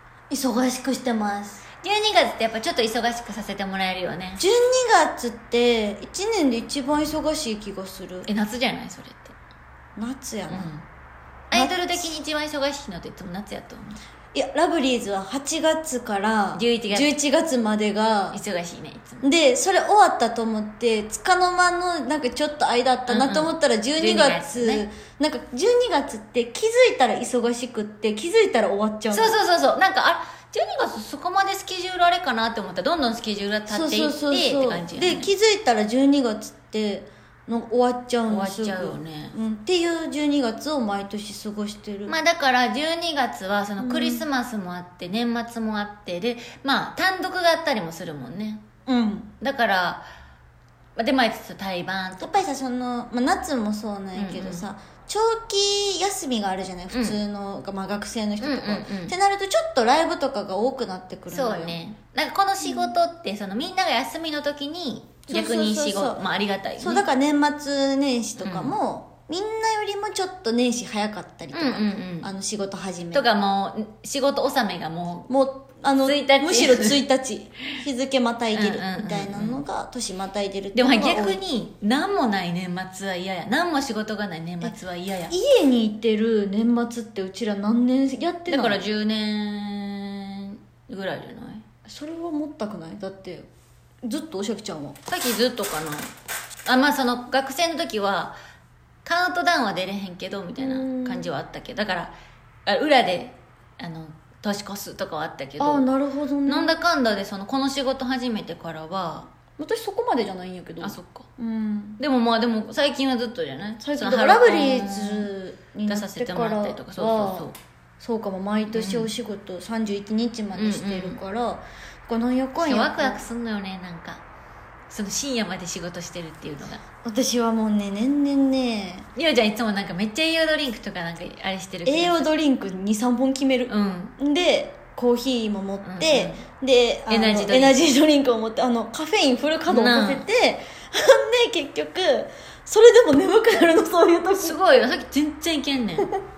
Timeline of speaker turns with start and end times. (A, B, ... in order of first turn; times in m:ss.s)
0:00.3-0:01.7 A
0:01.8-0:04.4 B
0:04.4-0:08.3 A
0:08.2-0:09.4 B
0:10.0-0:10.7 A
0:10.5-0:10.8 B
0:11.5-0:14.0 B
0:11.5-0:12.1 A
0:14.3-0:18.4 A
0:16.5-0:17.1 B
0:18.3-0:19.2 B
0:19.2-0:29.4 A
0:23.1-0:24.9 B
0:29.1-0:35.3 B
0:33.7-0:42.2 A
0:38.3-0:39.3 B
0:42.1-0:48.6 B
0:43.8-0:44.2 A
0:48.9-0:49.3 A
0:49.4-0:50.1 B
0:51.0-0:52.5 B
0:52.2-1:01.8 A
0:54.1-0:54.6 B
0:56.9-0:57.2 B
0:58.4-0:59.2 B
1:01.3-1:07.0 B
1:02.6-1:02.9 A
1:05.3-1:13.3 A
1:08.4-1:08.7 B
1:11.5-1:12.3 B
1:13.1-1:15.3 B
1:15.3-1:21.4 A
1:16.0-1:17.0 B
1:18.5-1:19.6 B
1:20.7-1:25.4 B
1:25.3-1:28.8 A
1:28.5-1:31.6 B
1:31.8-1:33.5 A
1:34.0-1:35.0 A
1:35.1-1:36.1 B
1:36.6-1:38.4 B
1:39.0-1:42.1 B
1:40.6-1:41.3 A
1:42.6-1:45.9 B
1:45.6-1:46.8 A
1:46.4-1:49.3 B
1:49.6-1:52.0 A
1:50.8-1:51.3 B
1:52.0-1:55.3 B
1:53.8-2:03.2 A
1:55.8-1:57.6 B
1:58.7-1:59.1 B
2:00.5-2:01.2 B
2:02.6-2:04.2 B
2:04.9-2:06.8 B
2:07.0-2:09.1 A
2:09.1-2:12.3 B
2:11.8-2:24.6 A
2:13.7-2:14.2 B
2:15.8-2:16.4 B
2:17.1-2:17.8 B
2:19.7-2:20.2 B
2:24.3-2:26.1 B